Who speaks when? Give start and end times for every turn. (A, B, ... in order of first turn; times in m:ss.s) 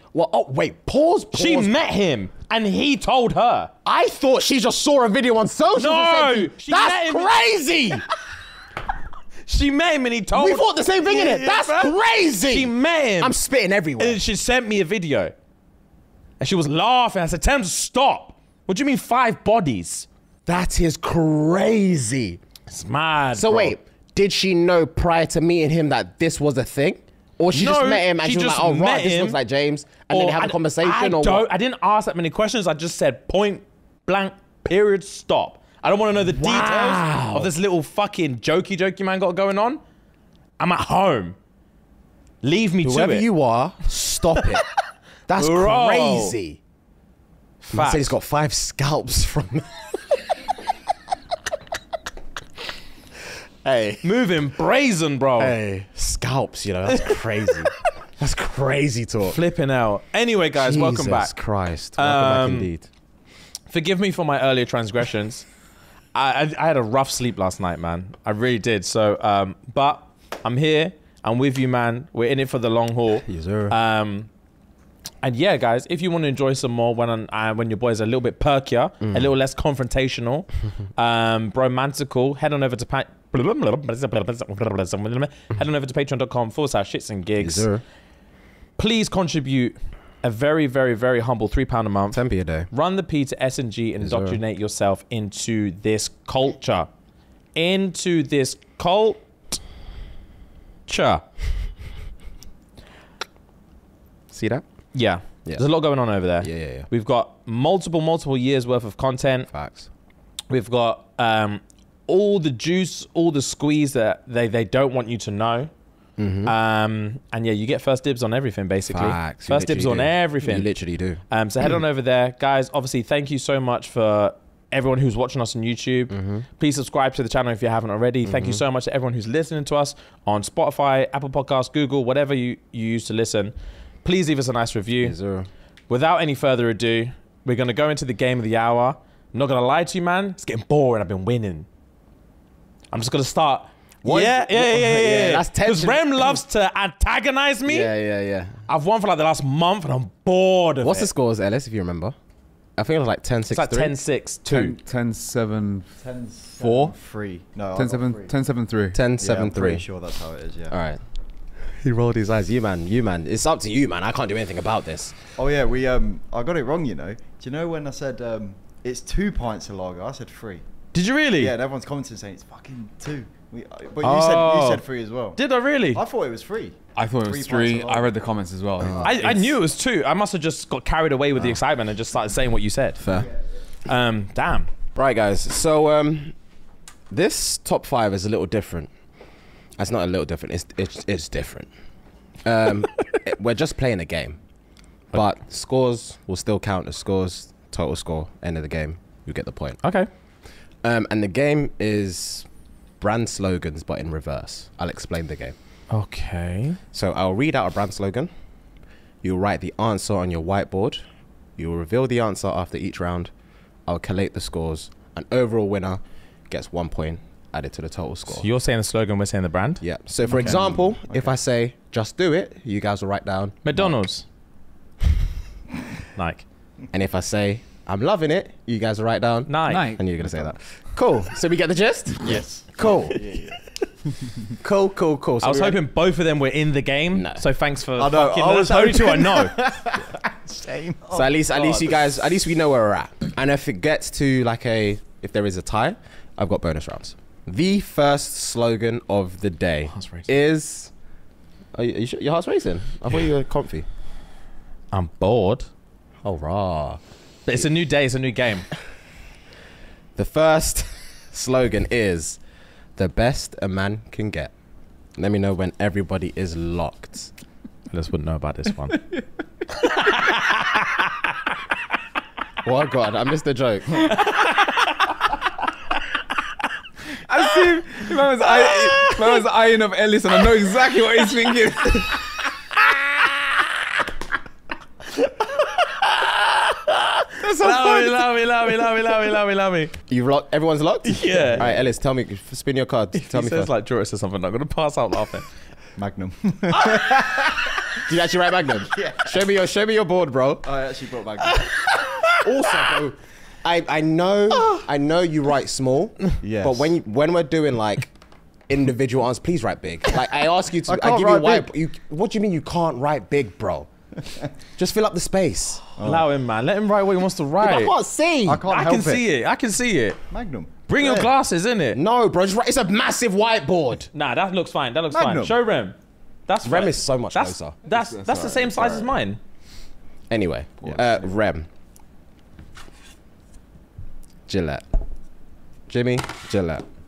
0:00.1-0:01.7 A
0:01.3-0:03.7 B
0:03.8-0:08.0 A
0:05.8-0:07.4 B
0:09.4-0:13.4 B
0:10.3-0:14.2 A
0:14.0-0:15.3 B
0:16.4-0:20.1 B
0:20.4-0:22.4 A
0:22.7-0:23.7 B
0:23.3-0:31.5 A
0:27.5-0:29.4 B
0:30.1-0:39.8 B
0:36.3-0:37.5 A
0:40.6-0:41.4 B
0:42.4-0:43.2 B
0:42.8-0:44.6 A
0:44.3-0:44.6 B
0:45.3-0:46.6 A
0:45.4-0:46.3 B
0:47.6-0:48.1 B
0:47.7-0:49.8 A
0:53.6-0:54.1 A
0:54.0-0:55.5 B
0:55.4-0:59.4 A
0:56.9-0:57.1 B
0:59.2-1:01.3 B
1:00.6-1:02.9 A
1:02.0-1:02.7 B
1:03.7-1:05.5 B
1:06.1-1:14.3 B
1:13.2-1:13.7 A
1:15.2-1:27.7 B
1:19.0-1:19.3 A
1:27.4-1:27.8 A
1:28.8-1:32.2 B
1:32.1-1:32.7 A
1:32.7-1:36.9 B
1:34.0-1:34.4 A
1:37.5-1:39.6 B
1:40.9-1:41.2 B
1:44.3-1:44.6 A
1:44.9-1:49.5 B
1:46.4-1:46.9 A
1:49.5-1:49.9 A
1:50.5-1:55.7 B
1:56.2-1:56.5 A
1:56.4-2:00.7 B
1:58.9-2:01.2 A
2:01.3-2:13.5 B
2:06.1-2:06.4 A
2:08.2-2:08.6 A
2:14.0-2:15.1 B
2:15.0-2:15.5 A
2:15.9-2:21.6 B
2:22.9-2:27.9 B
2:24.0-2:26.4 A
2:27.6-2:28.6 A
2:28.7-2:31.1 B
2:30.8-2:32.1 A
2:32.8-2:33.9 A
2:33.5-2:34.8 B
2:34.5-2:36.0 C
2:36.0-2:38.3 D
2:36.6-2:36.9 C
2:37.7-2:39.0 C
2:38.9-2:39.8 A
2:39.2-2:40.7 D
2:40.7-2:41.0 A
2:41.6-2:45.2 A
2:45.4-2:50.6 D
2:50.9-2:51.6 B
2:51.3-2:55.4 D
2:54.0-2:54.8 B
2:55.4-2:56.0 B
2:55.9-2:58.1 D
2:56.9-2:59.6 C
2:58.8-2:59.0 A
2:59.0-3:03.0 B
3:03.0-3:03.3 A
3:03.8-3:04.7 B
3:04.9-3:06.3 A
3:07.1-3:08.9 A
3:09.8-3:11.7 A
3:12.4-3:14.4 A
3:15.1-3:19.8 A
3:19.8-3:20.1 B
3:20.8-3:22.5 A
3:23.0-3:25.5 A
3:25.9-3:26.8 B
3:26.9-3:28.3 A
3:29.2-3:31.0 A
3:31.6-3:33.3 A
3:33.9-3:38.5 A
3:38.3-3:39.8 B
3:39.8-3:44.0 A
3:40.2-3:41.3 D
3:43.6-3:44.2 B
3:46.1-3:46.4 B
3:46.9-3:53.2 A
3:49.5-3:49.9 B
3:49.7-3:50.6 C
3:52.2-3:53.6 D
3:54.6-3:55.8 A
3:55.4-3:59.6 B
3:57.1-3:57.4 A
3:58.0-4:01.2 D
4:01.1-4:01.9 B
4:01.1-4:10.9 A
4:09.9-4:10.3 B
4:11.7-4:13.9 A
4:14.9-4:15.7 B
4:16.2-4:17.0 A
4:17.4-4:18.7 B
4:20.2-4:22.4 A
4:23.0-4:24.5 A
4:25.2-4:27.3 A
4:27.9-4:29.0 B
4:29.7-4:31.4 B
4:32.6-4:34.2 A
4:34.0-4:35.2 B
4:37.2-4:42.2 C
4:37.5-4:39.4 B
4:42.8-4:43.7 B
4:45.2-4:49.9 B
4:47.4-4:48.2 C
4:50.1-4:53.7 A
4:51.0-4:51.7 B
4:53.1-4:55.4 B
4:56.0-4:57.8 D
4:58.0-5:00.6 A
4:58.9-4:59.4 D
5:00.6-5:01.8 D
5:01.4-5:03.0 B
5:02.4-5:08.1 A
5:04.5-5:04.8 B
5:06.4-5:06.9 D
5:08.7-5:13.9 A
5:10.9-5:11.7 D
5:14.8-5:15.8 A
5:16.0-5:16.2 D
5:16.0-5:17.9 B
5:17.6-5:18.6 A
5:18.4-5:19.2 D
5:18.7-5:20.2 B
5:20.3-5:21.3 D
5:20.9-5:22.0 B
5:21.9-5:24.1 A
5:24.1-5:25.9 B
5:25.1-5:25.6 D
5:26.5-5:29.4 B
5:26.6-5:27.8 A
5:27.8-5:29.2 C
5:30.3-5:31.7 A
5:34.5-5:34.8 A
5:35.9-5:36.8 A